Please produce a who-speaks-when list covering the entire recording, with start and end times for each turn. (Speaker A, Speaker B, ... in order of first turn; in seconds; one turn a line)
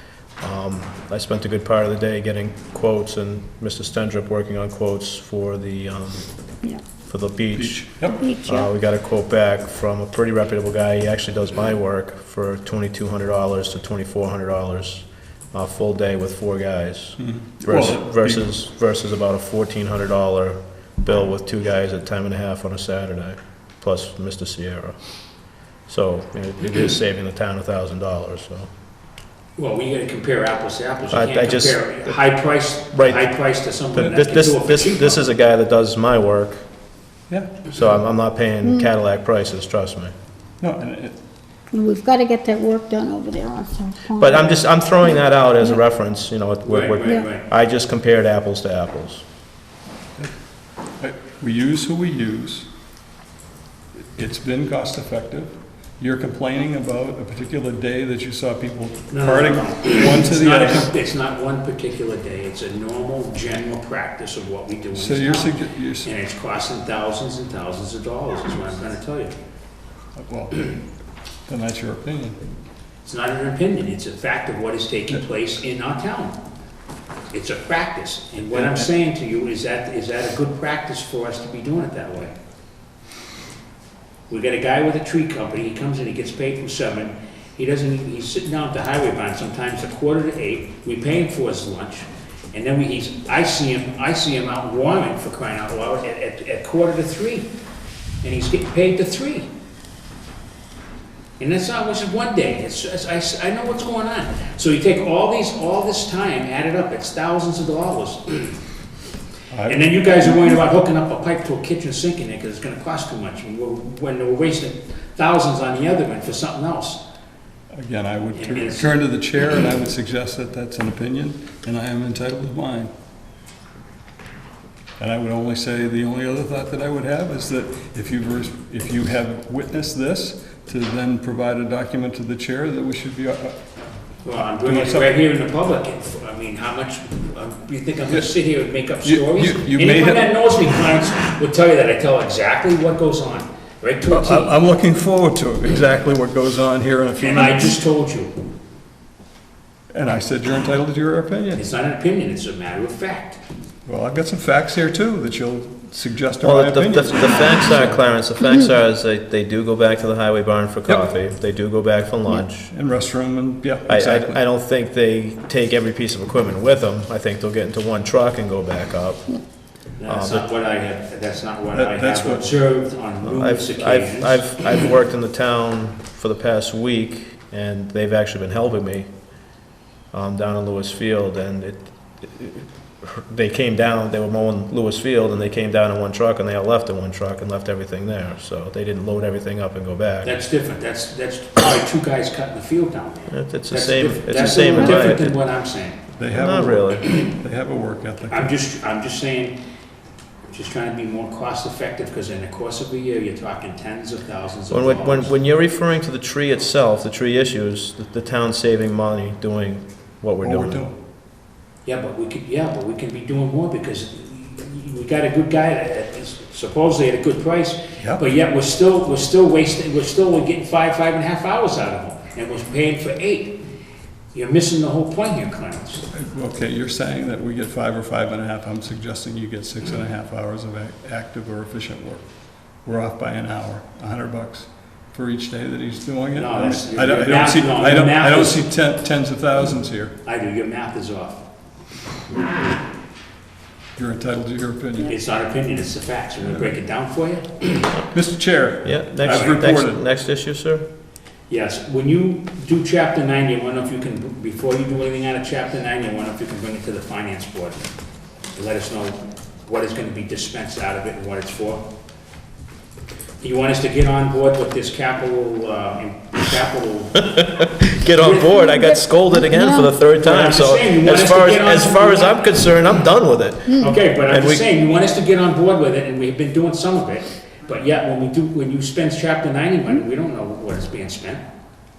Speaker A: 0.4-6.2
Speaker A: 7.1-25.0
Speaker B: 7.5-8.2
Speaker C: 8.2-8.7
Speaker B: 17.2-18.5
Speaker A: 25.9-28.7
Speaker D: 29.6-35.2
Speaker A: 31.1-32.2
Speaker A: 32.9-33.3
Speaker A: 33.9-36.6
Speaker A: 37.7-40.1
Speaker B: 40.6-41.1
Speaker C: 41.7-45.8
Speaker A: 44.2-49.2
Speaker D: 46.6-47.5
Speaker B: 51.0-52.6
Speaker B: 54.1-60.9
Speaker D: 59.1-69.3
Speaker B: 64.9-66.1
Speaker B: 70.2-70.8
Speaker B: 71.5-72.4
Speaker D: 73.0-76.3
Speaker D: 77.3-82.3
Speaker B: 78.5-78.8
Speaker D: 84.3-97.5
Speaker D: 98.2-99.5
Speaker D: 101.4-108.6
Speaker B: 109.5-109.9
Speaker D: 109.7-117.0
Speaker B: 117.7-122.9
Speaker D: 118.3-118.9
Speaker B: 125.0-133.6
Speaker D: 134.2-144.5
Speaker B: 134.6-135.2
Speaker B: 139.0-140.3
Speaker B: 144.1-147.8
Speaker D: 147.2-148.4
Speaker B: 149.9-151.6
Speaker D: 151.6-153.4
Speaker B: 153.8-158.0
Speaker A: 156.4-162.7
Speaker B: 162.7-164.4
Speaker A: 163.9-169.3
Speaker D: 170.0-174.5
Speaker A: 170.1-170.5
Speaker B: 171.7-172.5
Speaker A: 173.2-179.1
Speaker A: 180.1-190.3
Speaker D: 190.2-196.0
Speaker A: 193.3-195.3
Speaker B: 196.2-198.5
Speaker A: 196.3-197.1
Speaker D: 198.3-199.6
Speaker D: 200.5-205.3
Speaker A: 204.7-210.8
Speaker B: 210.4-210.9
Speaker D: 211.8-223.6
Speaker D: 224.3-226.0
Speaker B: 226.1-232.2
Speaker B: 232.8-240.1
Speaker D: 236.3-238.6
Speaker D: 240.2-241.4
Speaker B: 243.9-245.1
Speaker D: 245.0-248.0
Speaker B: 248.1-250.0
Speaker A: 248.8-250.8
Speaker D: 249.2-249.5
Speaker D: 251.5-257.8
Speaker D: 258.5-261.8
Speaker D: 263.4-267.3
Speaker A: 267.2-274.6
Speaker D: 268.1-268.5
Speaker C: 268.7-269.9
Speaker D: 270.1-272.8
Speaker D: 273.7-281.4